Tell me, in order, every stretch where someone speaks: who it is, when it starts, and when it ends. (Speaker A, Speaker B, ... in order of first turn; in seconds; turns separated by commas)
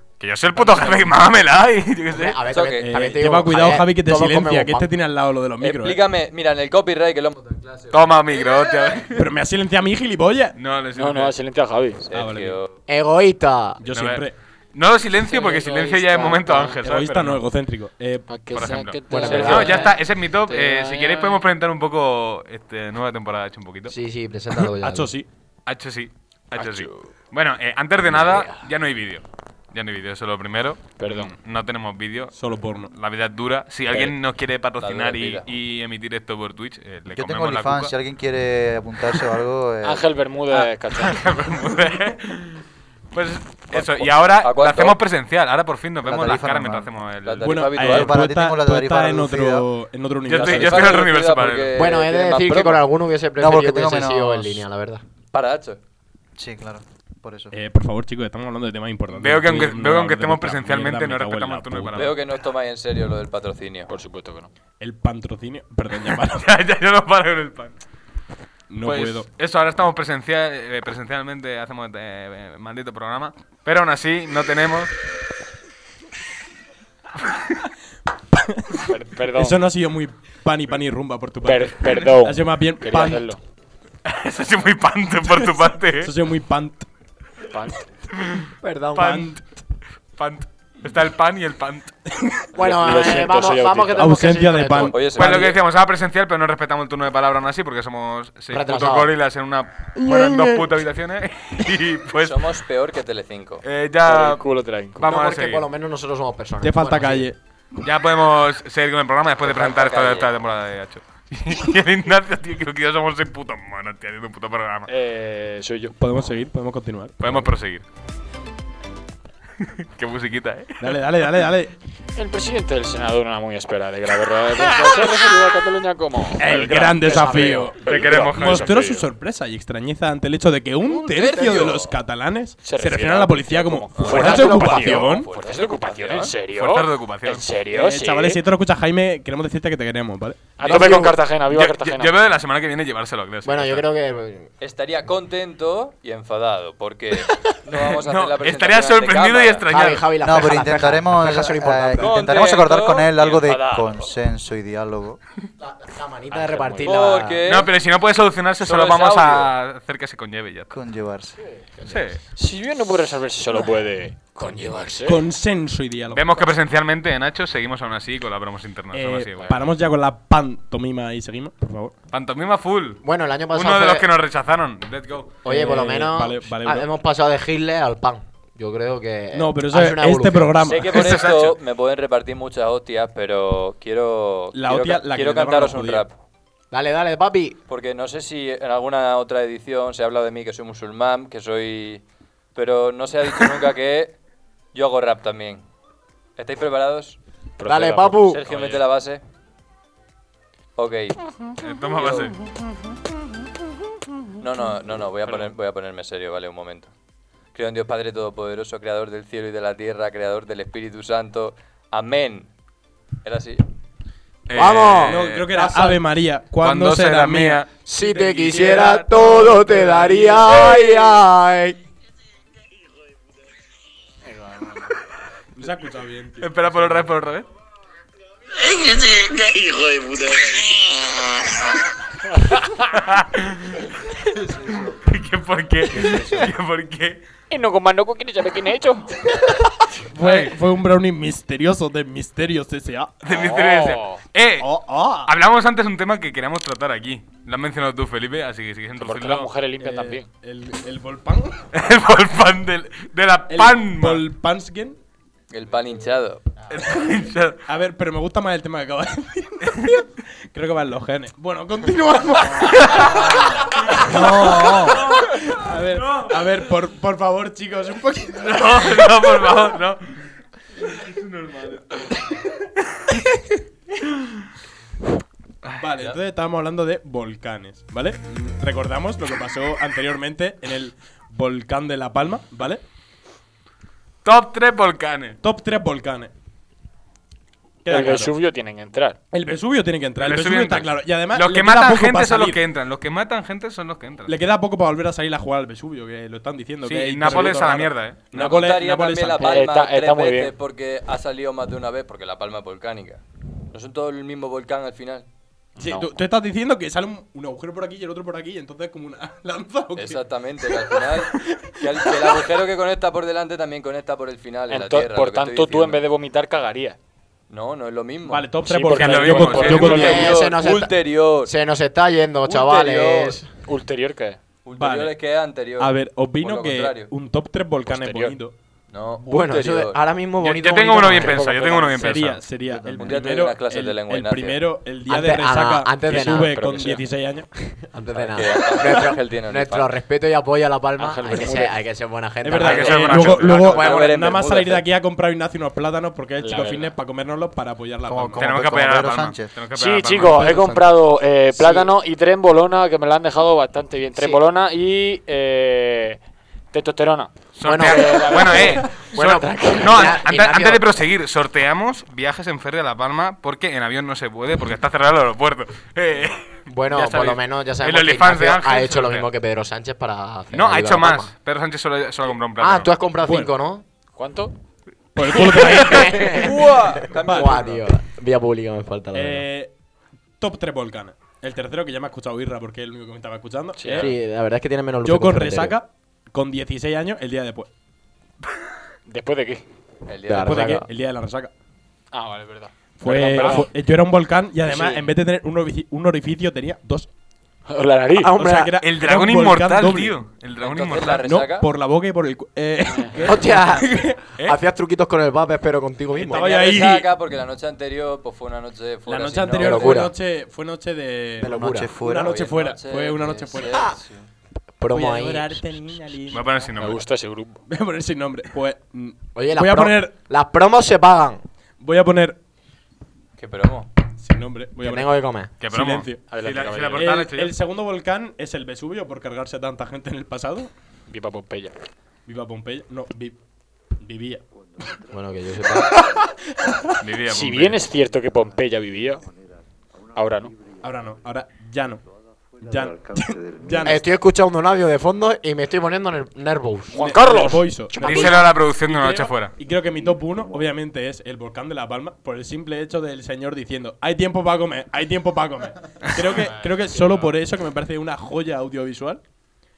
Speaker A: 0.2-2.4, Speaker B: 0.7-1.0, Speaker C: 2.1-4.9, Speaker B: 2.5-2.9, Speaker D: 2.8-6.0, Speaker B: 5.6-8.8, Speaker A: 7.9-9.3, Speaker D: 9.1-10.6, Speaker A: 10.6-11.3, Speaker E: 10.9-12.0, Speaker B: 12.0-12.7, Speaker D: 12.1-12.6, Speaker C: 12.9-13.8, Speaker D: 13.8-14.3, Speaker A: 13.9-17.4, Speaker E: 15.2-16.8, Speaker D: 16.8-18.4, Speaker E: 18.3-21.4, Speaker A: 18.5-23.9, Speaker C: 19.1-19.9, Speaker C: 23.9-25.1, Speaker D: 24.8-25.3, Speaker A: 25.7-32.3, Speaker C: 28.1-28.4, Speaker E: 31.0-31.3, Speaker D: 32.3-32.9, Speaker A: 32.9-37.9, Speaker B: 33.9-34.2, Speaker B: 34.8-35.5, Speaker F: 37.1-40.1, Speaker E: 39.8-41.3, Speaker A: 40.6-47.7, Speaker B: 43.7-45.0, Speaker F: 46.0-46.9, Speaker B: 47.2-48.2, Speaker D: 47.4-51.0, Speaker F: 47.8-49.7, Speaker A: 50.2-51.7, Speaker B: 50.3-52.8, Speaker C: 51.8-55.0, Speaker F: 53.4-54.6, Speaker B: 55.3-55.8, Speaker F: 56.4-57.6, Speaker D: 57.5-62.1, Speaker A: 59.1-62.2, Speaker B: 61.9-63.9, Speaker E: 63.9-64.5, Speaker D: 64.8-66.5, Speaker A: 66.0-67.8, Speaker D: 68.7-69.3, Speaker A: 68.8-74.9, Speaker A: 77.2-77.6, Speaker D: 78.3-78.8, Speaker E: 78.9-79.6, Speaker D: 79.3-83.3, Speaker E: 81.4-83.4, Speaker A: 84.0-86.1, Speaker D: 86.0-86.9, Speaker E: 87.5-87.9, Speaker A: 88.1-89.3, Speaker C: 88.6-89.3, Speaker D: 89.0-89.4, Speaker A: 90.2-92.1, Speaker C: 92.5-95.3, Speaker E: 92.6-94.1, Speaker D: 94.0-95.3, Speaker B: 94.8-95.6, Speaker A: 95.0-102.5, Speaker C: 98.5-99.1, Speaker D: 100.0-100.7, Speaker B: 102.2-103.7, Speaker A: 103.6-104.4, Speaker E: 104.0-105.0, Speaker A: 105.0-105.7, Speaker C: 105.0-107.3, Speaker D: 106.6-107.4, Speaker A: 107.8-114.9, Speaker B: 109.4-110.4, Speaker E: 114.9-116.0, Speaker D: 116.0-117.5, Speaker A: 117.2-117.8, Speaker A: 119.8-121.0, Speaker D: 120.8-121.7, Speaker E: 122.2-129.1, Speaker D: 126.4-135.3, Speaker C: 127.1-127.7, Speaker A: 127.8-128.9, Speaker B: 131.1-131.9, Speaker E: 132.6-138.4, Speaker B: 134.0-136.3, Speaker C: 134.1-135.0, Speaker A: 136.5-137.5, Speaker D: 137.7-140.6, Speaker E: 140.6-142.2, Speaker C: 140.6-141.2, Speaker A: 140.6-143.8, Speaker C: 143.4-144.5, Speaker B: 144.6-149.7, Speaker A: 147.8-150.1, Speaker C: 149.7-152.4, Speaker F: 150.2-155.2, Speaker B: 152.0-154.2, Speaker C: 155.6-157.4, Speaker E: 156.5-156.9, Speaker B: 156.8-157.8, Speaker A: 157.4-160.7, Speaker B: 158.6-159.5, Speaker F: 160.7-161.4, Speaker A: 161.8-162.2, Speaker E: 162.3-165.2, Speaker C: 164.4-164.9, Speaker D: 165.1-166.3, Speaker A: 166.1-169.6, Speaker D: 168.9-171.9, Speaker A: 172.1-173.0, Speaker C: 173.0-174.1, Speaker A: 173.5-175.4, Speaker C: 175.4-180.6, Speaker D: 175.4-176.9, Speaker D: 179.3-181.2, Speaker B: 180.6-186.2, Speaker A: 180.8-181.6, Speaker D: 184.5-186.1, Speaker C: 186.7-187.6, Speaker B: 187.7-192.0, Speaker B: 192.5-194.2, Speaker B: 194.7-195.7, Speaker B: 196.4-197.2, Speaker E: 197.6-198.8, Speaker C: 197.6-198.4, Speaker B: 198.2-199.2, Speaker B: 200.8-201.2, Speaker A: 201.6-202.4, Speaker B: 202.0-202.3, Speaker B: 204.4-206.9, Speaker B: 207.5-212.5, Speaker B: 213.2-213.7, Speaker A: 214.5-215.7, Speaker C: 214.6-215.7, Speaker D: 215.1-217.7, Speaker A: 216.5-219.7, Speaker C: 217.8-221.8, Speaker D: 219.3-220.4, Speaker E: 224.3-224.9, Speaker D: 225.6-227.1, Speaker A: 226.4-227.5, Speaker A: 232.8-233.9, Speaker A: 234.5-237.2, Speaker E: 237.5-239.3, Speaker D: 240.1-243.2, Speaker A: 240.2-240.5, Speaker A: 243.2-244.7, Speaker E: 243.3-244.2, Speaker D: 244.6-245.3, Speaker A: 245.2-249.5, Speaker E: 249.0-250.3, Speaker D: 249.8-251.6, Speaker A: 251.7-254.3, Speaker D: 253.5-255.0, Speaker B: 255.5-256.6, Speaker A: 256.7-257.6, Speaker D: 257.7-269.1, Speaker A: 259.7-260.0, Speaker A: 262.6-265.4, Speaker F: 264.0-265.1, Speaker A: 265.9-266.5, Speaker A: 268.3-270.2, Speaker A: 270.9-272.2, Speaker A: 275.6-275.9, Speaker D: 275.8-282.8, Speaker A: 284.2-285.4, Speaker D: 285.4-286.3, Speaker D: 287.8-288.3, Speaker E: 287.9-289.2, Speaker D: 289.3-292.6, Speaker A: 290.2-294.4, Speaker D: 294.3-299.6, Speaker A: 296.8-298.3, Speaker B: 298.3-303.2, Speaker E: 299.4-300.5, Speaker B: 303.7-305.3, Speaker E: 305.8-306.1, Speaker D: 305.8-312.4, Speaker B: 309.9-316.0, Speaker E: 314.7-317.0, Speaker B: 317.5-318.5, Speaker D: 318.3-320.3, Speaker E: 318.6-320.3, Speaker A: 318.9-320.2, Speaker B: 319.5-321.5, Speaker C: 319.7-323.5, Speaker B: 322.4-323.4, Speaker E: 323.6-324.4, Speaker B: 324.6-327.1, Speaker D: 324.8-325.1, Speaker D: 325.8-328.6, Speaker E: 327.9-328.4, Speaker B: 328.9-330.0, Speaker C: 329.2-331.4, Speaker A: 330.4-332.5, Speaker E: 331.1-332.2, Speaker D: 332.0-337.5, Speaker F: 332.6-333.2, Speaker B: 332.9-334.7, Speaker C: 335.1-336.6, Speaker E: 336.1-337.1, Speaker C: 337.6-344.1, Speaker B: 338.1-339.9, Speaker E: 341.0-341.8, Speaker D: 342.4-348.5, Speaker A: 342.5-344.0, Speaker B: 342.6-344.9, Speaker E: 346.4-346.9, Speaker F: 348.1-349.6, Speaker A: 348.4-350.8, Speaker E: 349.7-356.2, Speaker F: 350.4-350.6, Speaker C: 351.6-351.9, Speaker C: 354.2-354.4, Speaker E: 356.7-358.9, Speaker A: 357.6-369.3, Speaker C: 357.6-360.9, Speaker C: 366.7-371.3, Speaker A: 370.5-372.9, Speaker C: 372.6-373.8, Speaker D: 373.2-373.5, Speaker E: 374.2-374.5, Speaker D: 375.1-377.6, Speaker C: 375.3-379.5, Speaker B: 376.2-377.9, Speaker D: 379.1-379.7, Speaker D: 380.4-384.1, Speaker E: 383.8-384.1, Speaker C: 384.0-385.8, Speaker D: 385.0-387.7, Speaker E: 389.1-389.6, Speaker B: 390.1-390.7, Speaker C: 390.3-390.9, Speaker D: 390.3-391.5, Speaker E: 392.1-393.7, Speaker D: 393.0-397.1, Speaker E: 394.6-395.0, Speaker E: 397.7-398.3, Speaker C: 398.2-398.8, Speaker D: 398.3-400.2, Speaker A: 398.8-401.3, Speaker B: 400.6-401.7, Speaker D: 401.2-404.2, Speaker E: 402.9-403.2, Speaker C: 403.3-406.5, Speaker D: 406.2-407.1, Speaker B: 406.3-410.1, Speaker D: 409.1-413.9, Speaker C: 409.6-410.1, Speaker C: 411.4-411.9, Speaker F: 411.4-412.4, Speaker B: 412.2-414.3, Speaker C: 414.8-415.6, Speaker D: 414.9-416.5, Speaker A: 416.3-417.0, Speaker E: 416.8-417.6, Speaker D: 417.7-420.1, Speaker C: 419.4-421.4, Speaker D: 421.8-422.4, Speaker B: 423.4-423.9, Speaker D: 424.1-430.7, Speaker C: 424.8-425.5, Speaker A: 425.6-427.6, Speaker E: 426.3-427.2, Speaker E: 431.1-431.8, Speaker D: 432.3-433.4, Speaker D: 434.0-434.4, Speaker C: 435.1-436.1, Speaker D: 436.0-436.9, Speaker A: 437.0-437.8, Speaker E: 437.3-439.2, Speaker E: 440.1-440.5, Speaker D: 440.8-442.1, Speaker D: 442.6-444.1, Speaker C: 443.8-447.1, Speaker E: 446.9-448.3, Speaker D: 447.0-459.2, Speaker C: 447.9-448.4, Speaker A: 448.0-449.6, Speaker E: 456.4-457.4